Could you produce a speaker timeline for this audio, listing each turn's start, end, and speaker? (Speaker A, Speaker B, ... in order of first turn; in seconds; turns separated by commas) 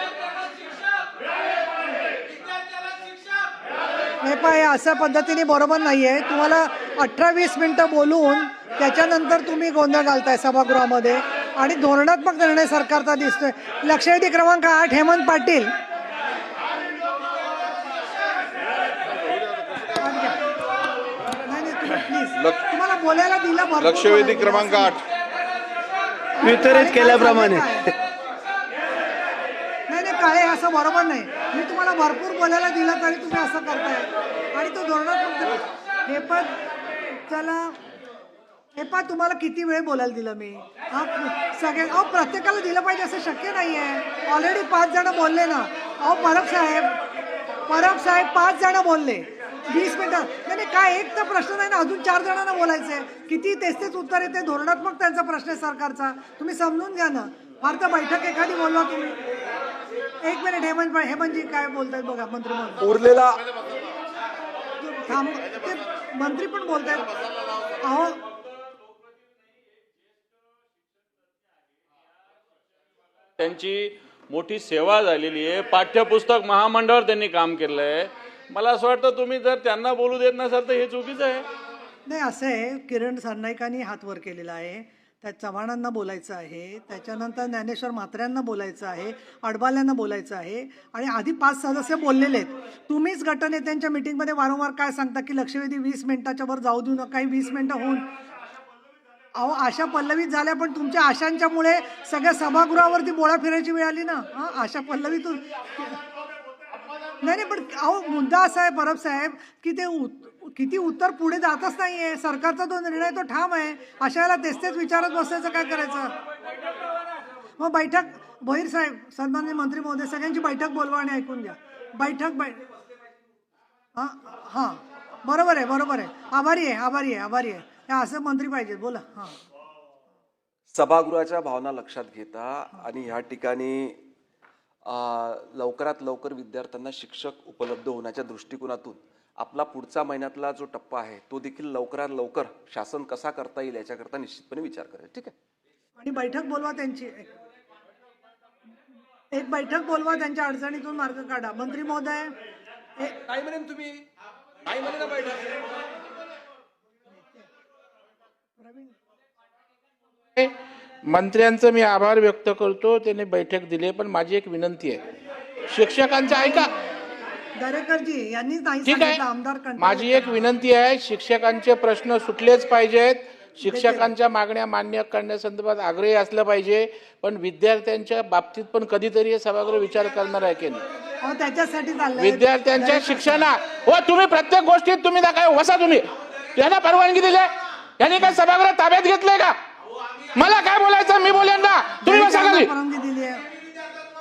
Speaker A: 4.2-15.7, Speaker A: 20.0-20.4, Speaker A: 21.4-25.0, Speaker B: 23.9-24.9, Speaker A: 26.4-27.9, Speaker B: 26.5-27.6, Speaker A: 29.9-36.5, Speaker A: 37.3-37.8, Speaker A: 38.7-46.9, Speaker A: 47.7-59.2, Speaker A: 60.2-62.9, Speaker C: 62.8-63.4, Speaker A: 64.8-67.1, Speaker A: 67.8-68.2, Speaker B: 73.4-81.4, Speaker A: 82.1-98.1, Speaker A: 99.3-106.0, Speaker A: 107.2-116.2, Speaker A: 117.6-122.6, Speaker A: 124.0-129.4, Speaker C: 130.7-134.0, Speaker C: 134.8-145.3, Speaker A: 146.0-147.3, Speaker A: 149.3-152.3, Speaker C: 153.4-153.9, Speaker C: 154.8-155.3, Speaker A: 158.6-158.9, Speaker D: 161.0-165.0, Speaker D: 165.7-166.7, Speaker A: 166.3-166.7, Speaker A: 167.6-170.5, Speaker D: 168.8-169.2, Speaker D: 169.8-180.8, Speaker A: 173.6-174.1, Speaker A: 181.2-183.5, Speaker D: 182.2-189.6, Speaker D: 190.3-192.7, Speaker A: 192.0-193.4